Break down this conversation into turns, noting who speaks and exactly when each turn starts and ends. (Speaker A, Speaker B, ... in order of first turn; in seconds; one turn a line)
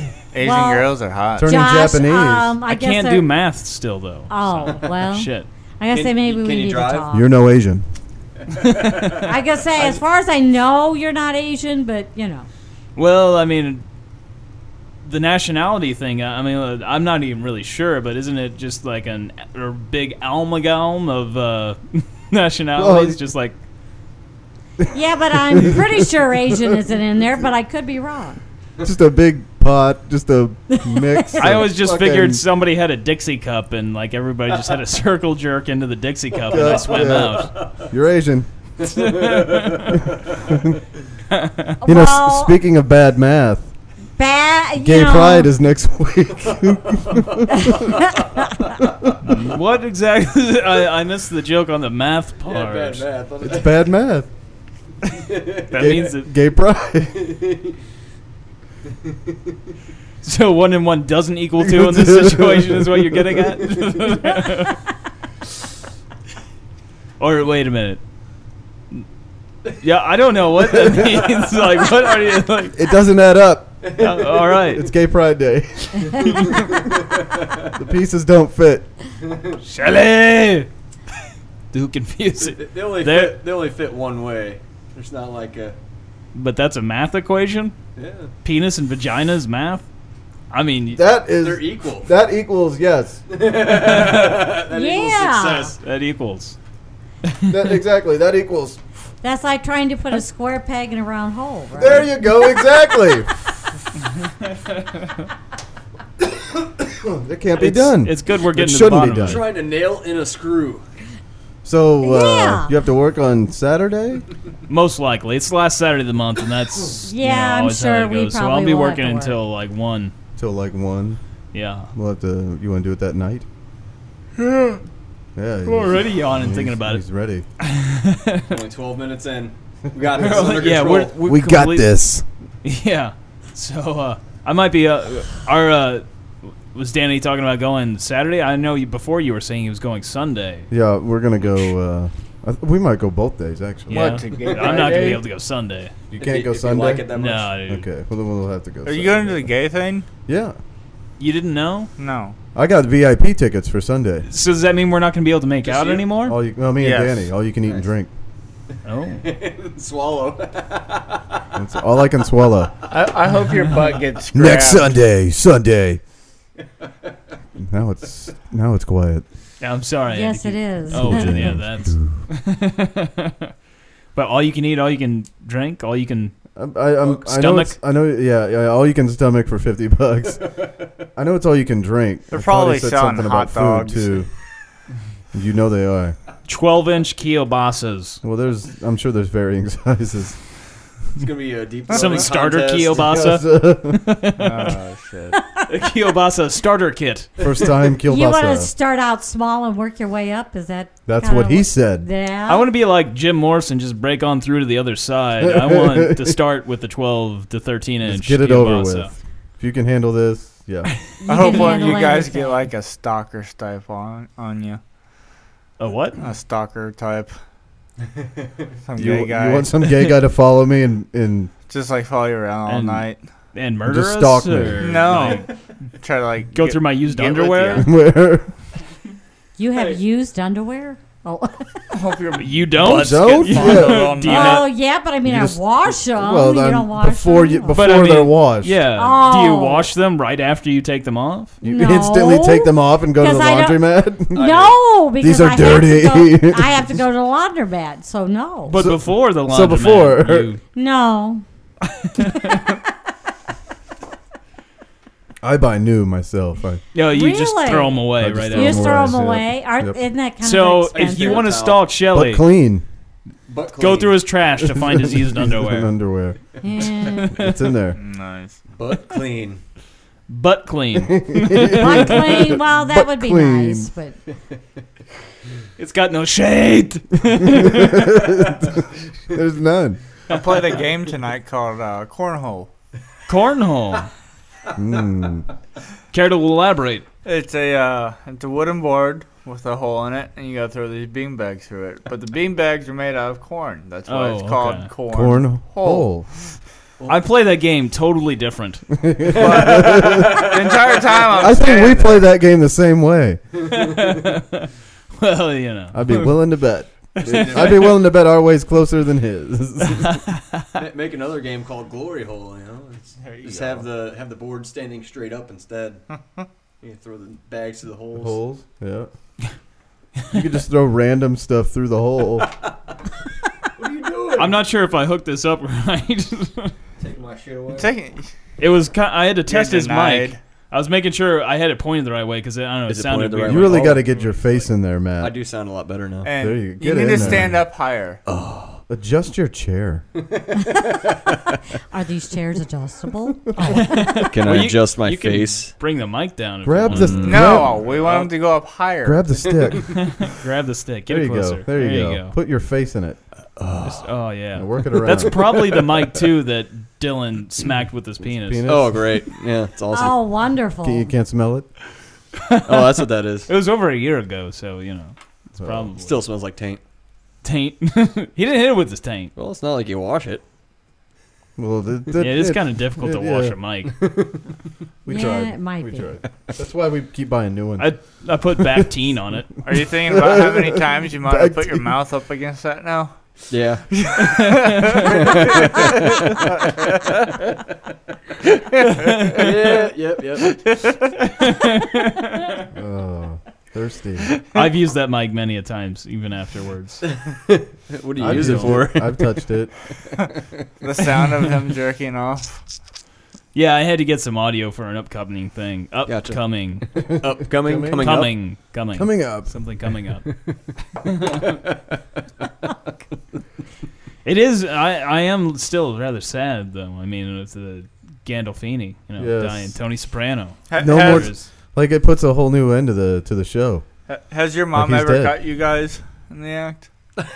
Speaker A: 0.3-1.5
Speaker B: 0.4-0.9
Speaker C: 1.4-2.5
Speaker B: 1.4-3.3
Speaker D: 2.7-5.5
Speaker B: 4.3-7.3
Speaker E: 5.9-7.1
Speaker C: 7.1-7.9
Speaker E: 8.5-9.2
Speaker B: 9.1-12.5
Speaker D: 13.0-13.8
Speaker D: 15.0-23.6
Speaker C: 22.8-23.2
Speaker B: 24.9-28.4
Speaker C: 25.5-26.0
Speaker C: 28.8-32.4
Speaker B: 30.8-31.4
Speaker D: 31.4-37.6
Speaker C: 36.5-38.5
Speaker E: 36.5-37.8
Speaker D: 38.9-40.0
Speaker E: 39.0-39.9
Speaker D: 41.3-41.8
Speaker B: 41.8-42.6
Speaker C: 41.9-43.7
Speaker B: 44.2-45.5
Speaker C: 44.8-47.7
Speaker E: 47.1-47.8
Speaker D: 49.2-53.1
Speaker E: 52.5-53.8
Speaker C: 53.4-54.3
Speaker E: 55.2-55.9
Speaker D: 55.7-56.3
Speaker C: 55.8-57.4
Speaker E: 57.2-57.7
Speaker D: 60.2-64.8
Speaker C: 61.6-63.2
Speaker D: 67.2-68.0
Speaker D: 69.8-72.8
Speaker C: 72.8-74.0
Speaker D: 74.0-74.9
Speaker C: 74.7-76.5
Speaker C: 77.7-78.9
Speaker D: 79.6-80.7
Speaker D: 81.7-83.4
Speaker E: 82.4-85.8
Speaker D: 86.3-87.8
Speaker E: 88.0-88.3
Speaker D: 88.4-89.8
Speaker D: 90.5-91.0
Speaker C: 90.9-93.2
Speaker E: 91.4-92.1
Speaker E: 93.3-95.8
Speaker D: 93.5-94.6
Speaker B: 94.7-95.7
Speaker D: 95.8-96.6
Speaker D: 97.2-97.6
Speaker C: 97.5-98.8
Speaker B: 99.2-102.1
Speaker C: 101.8-103.3
Speaker C: 106.8-109.4
Speaker D: 107.6-109.5
Speaker E: 109.2-110.8
Speaker C: 111.6-114.3
Speaker B: 112.0-112.7
Speaker D: 114.7-120.1
Speaker B: 117.1-119.4
Speaker C: 120.4-121.2
Speaker D: 121.5-121.9
Speaker C: 121.9-123.5
Speaker C: 125.4-127.5
Speaker D: 125.7-127.0
Speaker D: 127.6-128.6
Speaker E: 128.5-131.2
Speaker D: 130.2-131.9
Speaker C: 131.2-132.2
Speaker D: 132.6-136.1
Speaker D: 136.7-140.7
Speaker C: 140.7-144.2
Speaker D: 143.9-145.9
Speaker A: 143.9-145.2
Speaker E: 144.5-145.2
Speaker C: 146.1-147.1
Speaker E: 146.2-147.5
Speaker D: 147.1-147.8
Speaker C: 147.7-149.5
Speaker A: 148.8-150.1
Speaker C: 150.3-150.6
Speaker D: 151.2-151.9
Speaker A: 152.0-152.4
Speaker C: 152.6-154.3
Speaker D: 154.3-156.4
Speaker E: 155.6-156.1
Speaker C: 156.3-158.1
Speaker A: 156.8-157.3
Speaker D: 158.8-159.3
Speaker E: 159.2-161.4
Speaker C: 161.6-162.7
Speaker A: 162.9-164.9
Speaker C: 164.3-166.0
Speaker C: 167.6-169.2
Speaker D: 169.6-173.5
Speaker B: 170.1-171.5
Speaker C: 170.9-172.1
Speaker D: 174.2-176.4
Speaker C: 176.6-180.5
Speaker D: 177.1-177.7
Speaker C: 181.2-184.3
Speaker A: 182.3-184.2
Speaker C: 185.3-186.2
Speaker D: 186.5-188.2
Speaker C: 188.2-190.4
Speaker E: 191.2-193.1
Speaker A: 191.9-192.3
Speaker D: 191.9-194.7
Speaker C: 193.0-194.0
Speaker A: 194.4-195.4
Speaker D: 195.6-197.3
Speaker C: 197.4-198.7
Speaker B: 198.1-202.7
Speaker C: 201.1-202.1
Speaker D: 202.5-209.1
Speaker C: 205.4-206.3
Speaker C: 208.0-210.9
Speaker B: 211.2-212.7
Speaker A: 211.3-214.8
Speaker D: 211.5-211.7
Speaker D: 215.8-216.2
Speaker A: 216.2-217.3
Speaker A: 218.9-220.1
Speaker C: 219.0-221.5
Speaker A: 221.7-223.2
Speaker D: 222.7-225.5
Speaker C: 223.9-225.1
Speaker A: 224.8-225.5
Speaker A: 226.0-227.9
Speaker D: 226.5-227.9
Speaker C: 227.8-228.5
Speaker B: 229.6-231.8
Speaker A: 231.9-234.7
Speaker D: 232.4-234.7
Speaker C: 232.8-234.2
Speaker B: 234.2-237.8
Speaker C: 235.2-238.8
Speaker D: 237.7-241.6
Speaker B: 239.0-239.9
Speaker C: 241.6-244.4
Speaker B: 241.6-248.8
Speaker E: 244.3-244.8
Speaker C: 245.2-246.9
Speaker D: 248.7-250.6
Speaker C: 248.8-250.5
Speaker B: 250.7-251.4
Speaker D: 252.0-252.8
Speaker C: 255.4-256.8
Speaker D: 256.9-259.1
Speaker B: 257.1-261.5
Speaker C: 258.2-260.0
Speaker D: 260.4-262.4
Speaker E: 260.9-261.9
Speaker C: 262.1-262.9
Speaker E: 263.5-264.2
Speaker D: 263.8-265.9
Speaker C: 264.7-266.4
Speaker B: 266.6-267.3
Speaker D: 267.2-267.6
Speaker C: 267.3-268.0
Speaker A: 268.0-268.6
Speaker E: 268.8-269.6
Speaker D: 270.3-272.2
Speaker C: 271.2-273.9
Speaker B: 271.7-274.2
Speaker D: 275.8-278.2
Speaker C: 277.6-280.0
Speaker A: 280.3-282.7
Speaker D: 283.3-284.1
Speaker C: 284.8-285.5
Speaker D: 286.1-287.1
Speaker A: 287.2-296.1
Speaker D: 294.1-294.9
Speaker C: 295.1-296.3
Speaker D: 297.1-298.9
Speaker C: 299.0-300.5
Speaker E: 299.3-301.5
Speaker A: 299.4-302.2
Speaker C: 301.4-303.4
Speaker D: 303.7-306.3
Speaker C: 305.9-310.2
Speaker D: 307.2-308.0
Speaker E: 307.2-308.0
Speaker E: 310.8-316.0
Speaker A: 313.2-313.9
Speaker E: 316.8-318.4
Speaker C: 318.2-319.1
Speaker C: 320.3-322.5
Speaker E: 323.8-324.6
Speaker D: 324.4-326.7
Speaker E: 327.0-327.9
Speaker A: 327.7-328.3
Speaker D: 328.6-333.9
Speaker A: 329.5-330.4
Speaker E: 332.9-334.3
Speaker C: 333.5-335.3
Speaker E: 335.2-336.3
Speaker A: 336.2-338.2
Speaker C: 336.3-337.6
Speaker E: 337.1-337.5
Speaker E: 338.3-338.8
Speaker C: 338.9-340.0
Speaker E: 340.2-341.5
Speaker B: 341.9-344.1
Speaker D: 343.7-348.3
Speaker E: 344.3-345.8
Speaker C: 346.6-347.8
Speaker E: 346.9-347.6
Speaker A: 347.2-349.3
Speaker C: 349.0-350.0
Speaker D: 349.9-352.4
Speaker C: 351.1-353.2
Speaker E: 353.6-354.1
Speaker D: 353.8-358.6
Speaker C: 354.6-355.4
Speaker E: 355.1-355.8
Speaker C: 358.4-359.1
Speaker E: 358.7-360.2
Speaker B: 359.9-361.1
Speaker C: 360.8-361.7
Speaker D: 362.4-366.1
Speaker E: 362.7-363.5
Speaker C: 365.6-365.9
Speaker E: 366.0-366.8
Speaker D: 367.4-369.3
Speaker E: 369.4-370.4
Speaker C: 371.6-373.6
Speaker D: 372.2-374.0
Speaker C: 375.1-377.9
Speaker B: 375.1-376.1
Speaker D: 377.8-379.5
Speaker A: 379.6-383.1
Speaker C: 380.1-381.9
Speaker E: 383.5-383.9
Speaker A: 383.9-385.9
Speaker D: 384.5-385.0
Speaker E: 385.0-387.6
Speaker D: 389.1-389.5
Speaker E: 389.3-390.6
Speaker D: 391.4-392.6
Speaker C: 392.8-394.3
Speaker D: 394.5-397.0
Speaker E: 397.0-399.3
Speaker C: 398.2-399.7
Speaker D: 398.3-398.8
Speaker A: 400.8-402.5
Speaker D: 403.5-407.1
Speaker E: 406.1-408.3
Speaker C: 407.6-408.3
Speaker D: 408.0-410.3
Speaker C: 408.9-409.5
Speaker E: 410.3-410.6
Speaker D: 411.1-411.4
Speaker D: 414.2-421.5
Speaker C: 419.2-419.7
Speaker A: 420.7-421.3
Speaker C: 420.8-423.8
Speaker A: 424.1-426.9
Speaker C: 424.7-425.4